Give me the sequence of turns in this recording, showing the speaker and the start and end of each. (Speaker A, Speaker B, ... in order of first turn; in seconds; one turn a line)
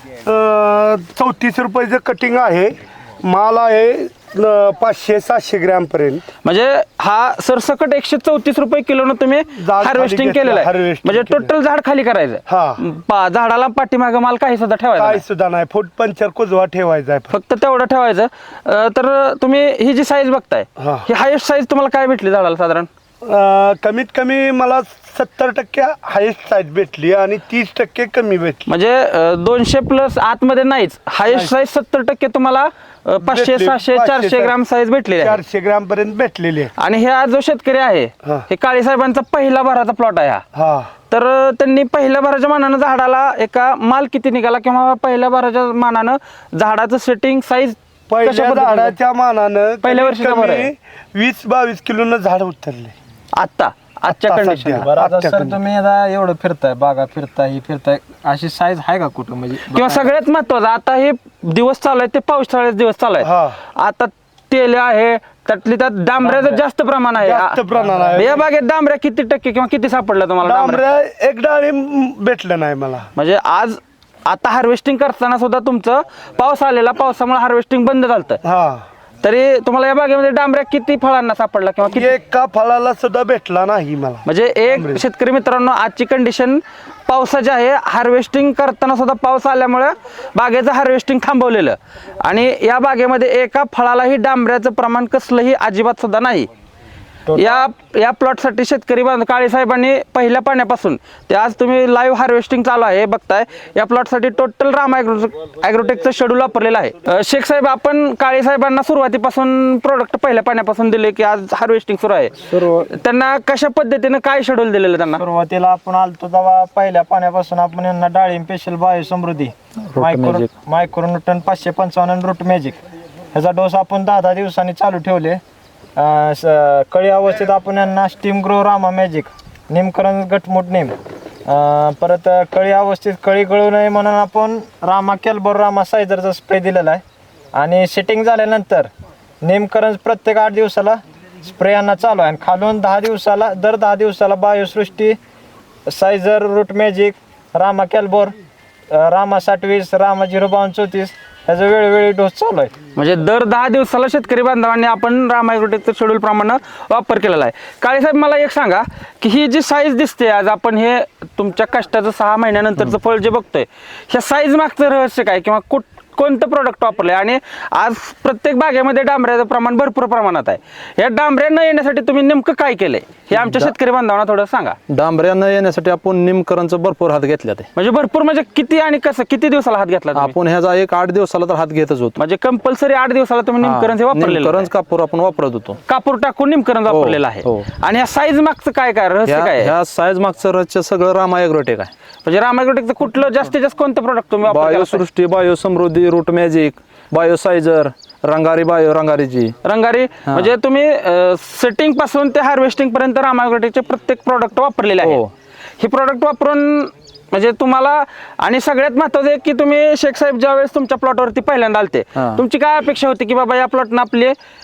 Speaker A: 0.2-6.2
Speaker B: 6.4-15.2
Speaker A: 9.6-11.5
Speaker A: 12.5-12.8
Speaker A: 15.0-17.3
Speaker B: 17.3-22.9
Speaker A: 20.8-21.1
Speaker A: 23.2-28.7
Speaker B: 28.7-35.4
Speaker A: 33.2-34.5
Speaker A: 35.2-36.7
Speaker B: 36.8-40.4
Speaker A: 40.5-40.9
Speaker B: 41.1-49.0
Speaker A: 48.1-53.0
Speaker B: 49.8-50.7
Speaker B: 53.3-54.9
Speaker A: 54.1-55.6
Speaker C: 54.8-60.1
Speaker B: 59.7-67.6
Speaker A: 63.2-63.6
Speaker C: 66.3-66.6
Speaker A: 67.2-68.4
Speaker B: 68.2-70.8
Speaker A: 70.4-73.1
Speaker B: 73.2-78.4
Speaker A: 78.4-78.9
Speaker B: 79.2-82.1
Speaker A: 81.9-85.0
Speaker B: 84.3-96.5
Speaker C: 97.3-97.7
Speaker B: 97.3-115.2
Speaker C: 112.5-112.9
Speaker C: 115.2-122.8
Speaker D: 119.9-120.5
Speaker C: 123.3-125.4
Speaker C: 126.0-130.9
Speaker C: 131.5-137.0
Speaker C: 137.6-138.9
Speaker C: 139.4-145.2
Speaker C: 145.9-148.3
Speaker C: 148.9-152.7
Speaker B: 152.9-174.8
Speaker D: 173.3-173.7
Speaker D: 174.9-177.7
Speaker B: 177.8-180.3
Speaker D: 180.2-182.2
Speaker B: 182.2-184.7
Speaker D: 183.6-185.8
Speaker B: 185.9-189.7
Speaker D: 186.9-187.7
Speaker D: 189.3-191.9
Speaker B: 192.2-195.0
Speaker D: 194.4-199.6
Speaker B: 199.6-205.2
Speaker D: 205.0-205.3
Speaker B: 205.8-214.3
Speaker D: 212.2-212.4